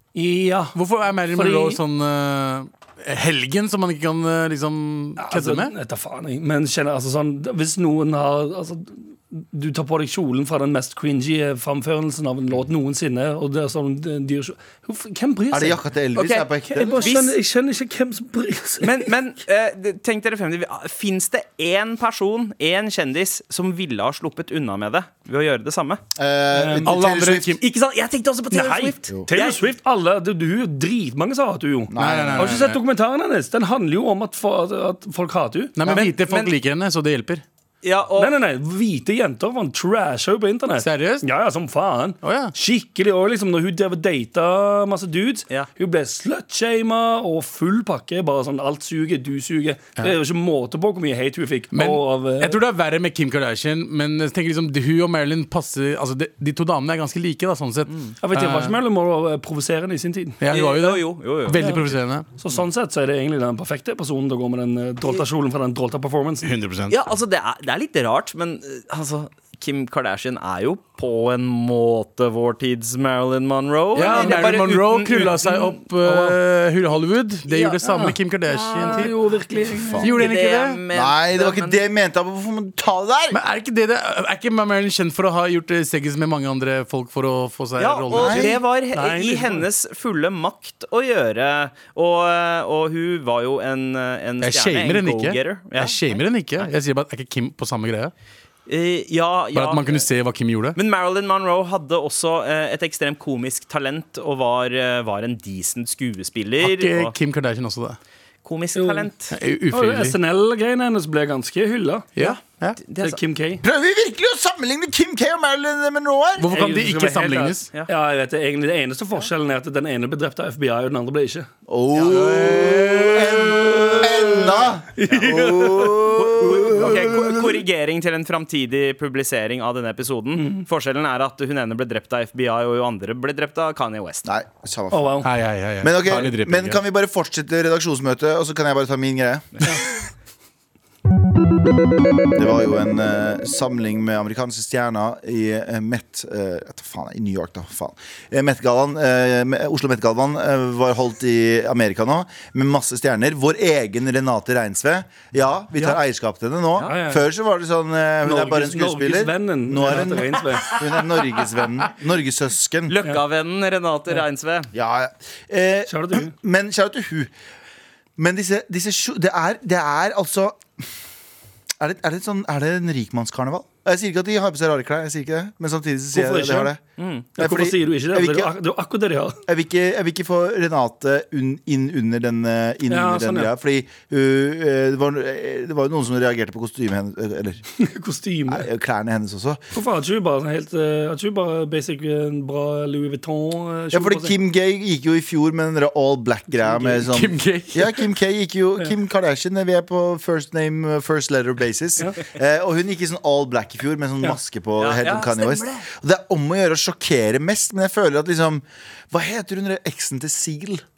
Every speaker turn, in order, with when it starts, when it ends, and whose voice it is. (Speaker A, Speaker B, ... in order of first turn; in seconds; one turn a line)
Speaker A: 0.1-0.8
Speaker B: 0.7-5.7
Speaker A: 1.3-1.8
Speaker A: 5.2-15.8
Speaker C: 15.5-17.1
Speaker D: 16.1-17.4
Speaker A: 16.6-19.1
Speaker D: 18.8-26.0
Speaker C: 26.1-27.6
Speaker A: 26.5-26.9
Speaker B: 26.8-27.6
Speaker D: 27.6-29.6
Speaker A: 28.5-35.8
Speaker C: 31.9-32.6
Speaker B: 31.9-32.8
Speaker B: 35.8-37.4
Speaker C: 35.8-36.1
Speaker D: 35.9-36.5
Speaker D: 37.8-38.4
Speaker A: 38.2-52.6
Speaker B: 40.8-41.2
Speaker B: 42.2-42.5
Speaker B: 51.7-58.8
Speaker D: 57.9-58.1
Speaker A: 58.2-60.4
Speaker B: 60.4-62.2
Speaker D: 60.5-61.9
Speaker A: 61.6-61.9
Speaker A: 62.4-66.5
Speaker B: 66.4-67.0
Speaker D: 66.9-75.8
Speaker B: 73.9-79.1
Speaker A: 74.0-74.5
Speaker A: 76.0-76.4
Speaker D: 77.5-78.1
Speaker A: 77.9-80.1
Speaker B: 80.0-80.8
Speaker D: 80.1-81.8
Speaker C: 80.9-83.4
Speaker B: 83.3-88.6
Speaker D: 87.8-96.0
Speaker C: 88.1-88.6
Speaker A: 88.9-89.7
Speaker B: 94.4-98.1
Speaker D: 98.7-100.0
Speaker B: 99.5-100.8
Speaker D: 100.8-107.1
Speaker B: 106.6-108.0
Speaker D: 108.4-109.3
Speaker A: 108.7-109.1
Speaker B: 109.3-110.2
Speaker A: 109.7-112.1
Speaker B: 112.2-112.8
Speaker D: 112.2-113.2
Speaker A: 113.0-113.6
Speaker C: 113.6-116.5
Speaker B: 116.4-117.7
Speaker A: 116.5-121.5
Speaker C: 121.7-127.6
Speaker D: 121.9-122.3
Speaker B: 122.1-123.6
Speaker A: 123.6-126.5
Speaker D: 125.1-125.3
Speaker D: 126.2-134.3
Speaker A: 130.4-130.6
Speaker C: 134.2-135.2
Speaker A: 134.9-135.3
Speaker B: 135.2-136.8
Speaker C: 135.8-139.6
Speaker C: 142.3-162.9
Speaker A: 156.8-157.3
Speaker A: 158.2-160.7
Speaker B: 161.0-161.4
Speaker D: 162.9-164.7
Speaker C: 164.7-167.3
Speaker A: 165.9-166.3
Speaker C: 168.2-170.6
Speaker C: 171.8-176.8
Speaker A: 176.1-176.7
Speaker D: 177.0-177.3
Speaker C: 177.4-178.5
Speaker A: 177.4-179.4
Speaker C: 179.5-187.6
Speaker A: 182.9-183.5
Speaker A: 187.8-188.7
Speaker C: 188.5-189.6
Speaker A: 189.7-194.4
Speaker C: 193.9-210.8
Speaker A: 196.5-197.0
Speaker B: 197.0-198.0
Speaker D: 204.8-205.8